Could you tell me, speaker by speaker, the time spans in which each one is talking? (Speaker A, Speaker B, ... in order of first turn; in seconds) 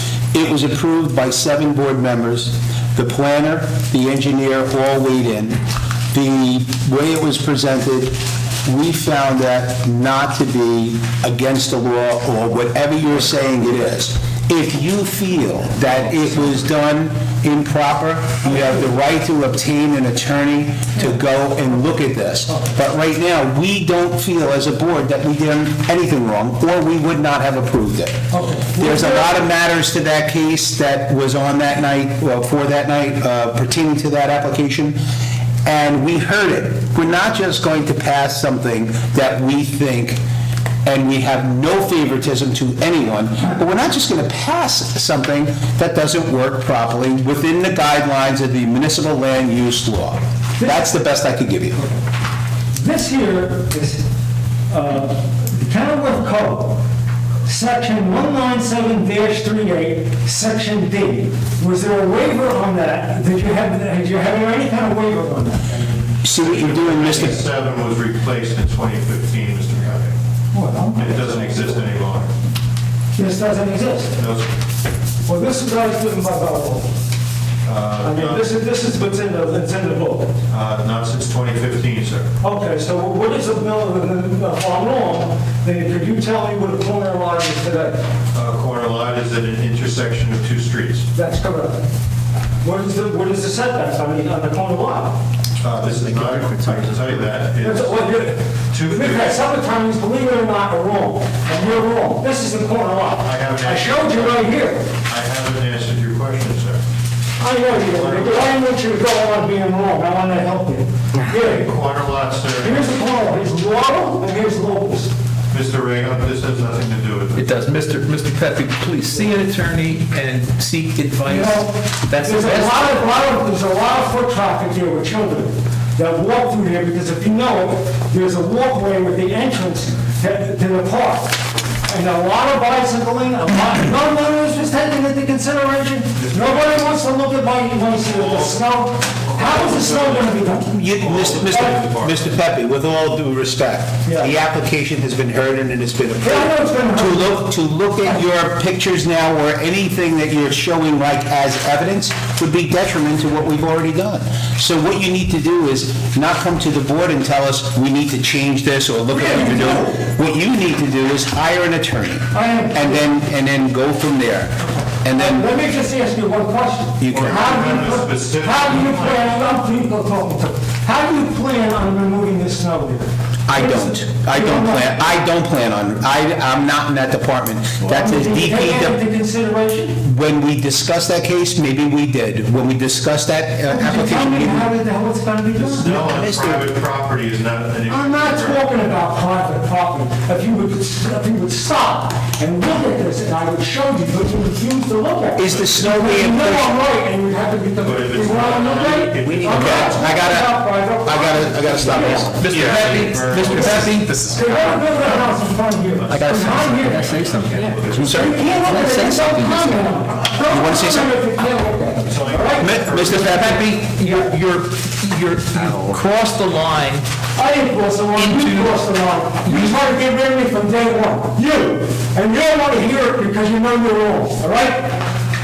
Speaker A: 0.3-5.6, 6.1-28.2, 28.7-35.0, 35.6-40.2, 40.9-51.8, 66.2-67.4, 140.7-165.5, 167.0-167.5, 173.5-179.0, 180.0-184.7, 185.8-186.7, 195.4-196.8, 199.2-202.5, 207.9-208.4, 210.4-211.1, 212.6-213.8
Speaker B: 28.3-29.4, 50.6-50.9, 52.7-54.0, 54.7-56.8, 57.4-66.0, 70.5-71.6, 73.2-74.2, 75.2-76.9, 78.0-80.3, 82.4-88.0, 91.1-91.8, 92.6-95.2, 97.6-104.9, 107.4-111.6, 112.6-115.1, 121.2-131.3, 131.9-140.8, 141.5-141.8, 144.1-144.3, 146.2-147.5, 159.1-160.0, 162.3-163.1, 164.6-175.0, 177.8-180.0, 183.7-185.9, 187.9-202.4, 203.4-207.1, 208.1-212.8, 214.0-214.3, 217.4-225.0
Speaker C: 66.3-70.1, 70.9-72.3, 74.1-74.5, 77.6-78.5, 80.5-82.3, 88.3-91.1, 95.6-98.0, 98.7-99.4, 103.2-104.5, 105.0-106.8, 107.5-108.6, 111.3-112.8, 115.5-117.5, 136.2-136.9, 138.0-140.4, 141.0-142.3, 167.1-169.3, 185.6-188.7, 195.5-195.8, 197.8-200.1, 202.4-205.3, 205.9-208.6, 212.0-213.7
Speaker D: 117.3-123.1, 202.3-204.8, 206.1-209.9, 212.9-217.1, 218.1-218.8, 219.4-219.8